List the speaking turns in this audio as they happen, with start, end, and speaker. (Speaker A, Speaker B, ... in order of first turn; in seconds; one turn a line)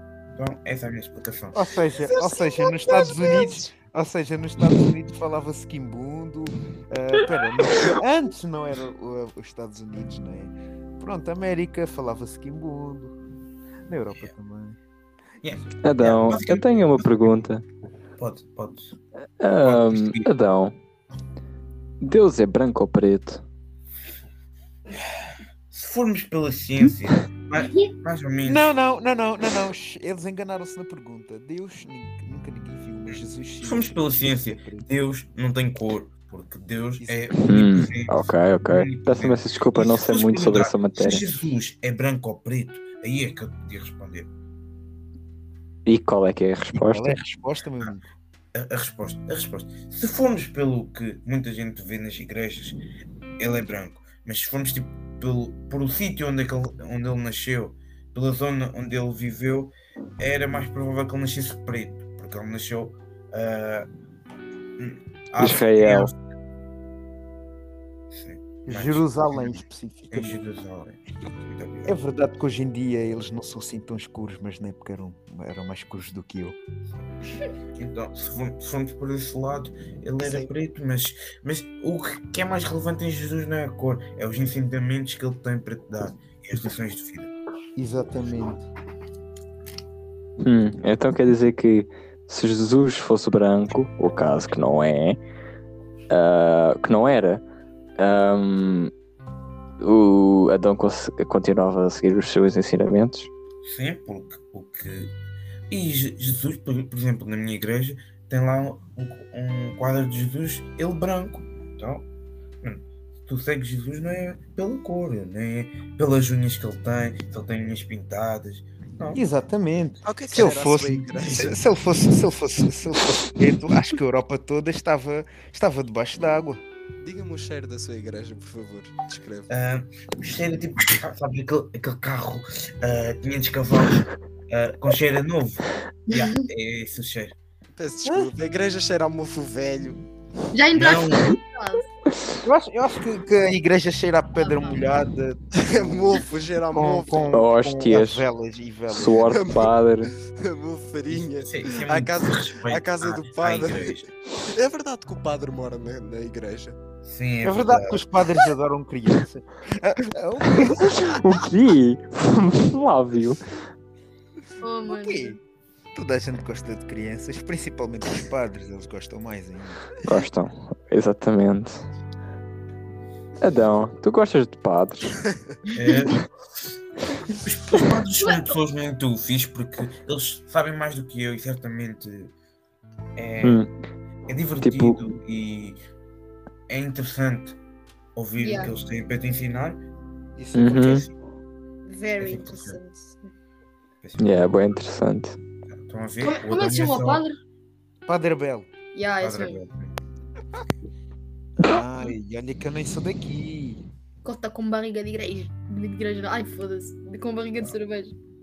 Speaker A: 0.3-1.6
Speaker B: 1.5-13.1
Speaker C: 2.8-3.5
Speaker B: 13.9-14.8
Speaker A: 15.4-17.4
Speaker D: 15.8-17.6
Speaker A: 18.2-18.9
Speaker D: 19.4-20.8
Speaker A: 19.6-20.3
Speaker D: 22.0-23.4
Speaker A: 24.9-28.7
Speaker E: 27.6-27.9
Speaker B: 28.4-34.9
Speaker A: 33.1-44.3
Speaker B: 37.0-37.4
Speaker D: 37.5-41.3
Speaker D: 45.9-47.2
Speaker B: 46.7-48.0
Speaker A: 48.5-52.8
Speaker A: 53.4-63.9
Speaker A: 64.8-66.2
Speaker D: 65.4-66.1
Speaker A: 68.1-71.9
Speaker B: 68.7-70.4
Speaker B: 71.9-76.6
Speaker A: 77.8-87.3
Speaker C: 80.2-80.5
Speaker B: 87.8-88.7
Speaker D: 90.4-95.2
Speaker D: 96.1-97.4
Speaker D: 98.0-98.9
Speaker D: 99.8-103.3
Speaker A: 103.6-105.1
Speaker A: 105.7-112.0
Speaker A: 112.6-119.2
Speaker B: 119.1-126.6
Speaker C: 120.0-121.5
Speaker C: 127.0-129.5
Speaker A: 129.5-137.3
Speaker E: 136.1-136.5
Speaker C: 137.8-140.0
Speaker B: 138.0-138.3
Speaker E: 140.5-141.9
Speaker A: 140.7-141.4
Speaker B: 142.4-146.2
Speaker E: 144.4-144.8
Speaker C: 145.5-147.4
Speaker B: 146.7-149.4
Speaker D: 147.3-148.2
Speaker D: 148.9-150.1
Speaker C: 149.2-156.8
Speaker A: 151.1-154.1
Speaker A: 157.0-158.0
Speaker B: 157.4-161.2
Speaker D: 160.6-163.4
Speaker E: 164.6-165.4
Speaker B: 164.9-165.4
Speaker B: 165.9-170.0
Speaker D: 170.0-171.8
Speaker D: 173.4-175.2
Speaker A: 175.7-176.3
Speaker A: 177.3-182.3
Speaker A: 183.2-183.7
Speaker D: 183.4-183.7
Speaker A: 184.3-185.8
Speaker D: 184.6-185.0
Speaker A: 186.7-187.6
Speaker A: 188.2-189.8
Speaker E: 188.4-188.7
Speaker B: 190.3-191.1
Speaker D: 190.5-191.1
Speaker E: 191.8-193.3
Speaker A: 192.2-192.8
Speaker D: 194.2-195.4
Speaker A: 195.7-197.2
Speaker E: 196.2-197.4
Speaker B: 198.1-198.7
Speaker E: 198.9-199.6
Speaker A: 199.2-199.9
Speaker B: 201.6-203.8
Speaker E: 204.2-208.1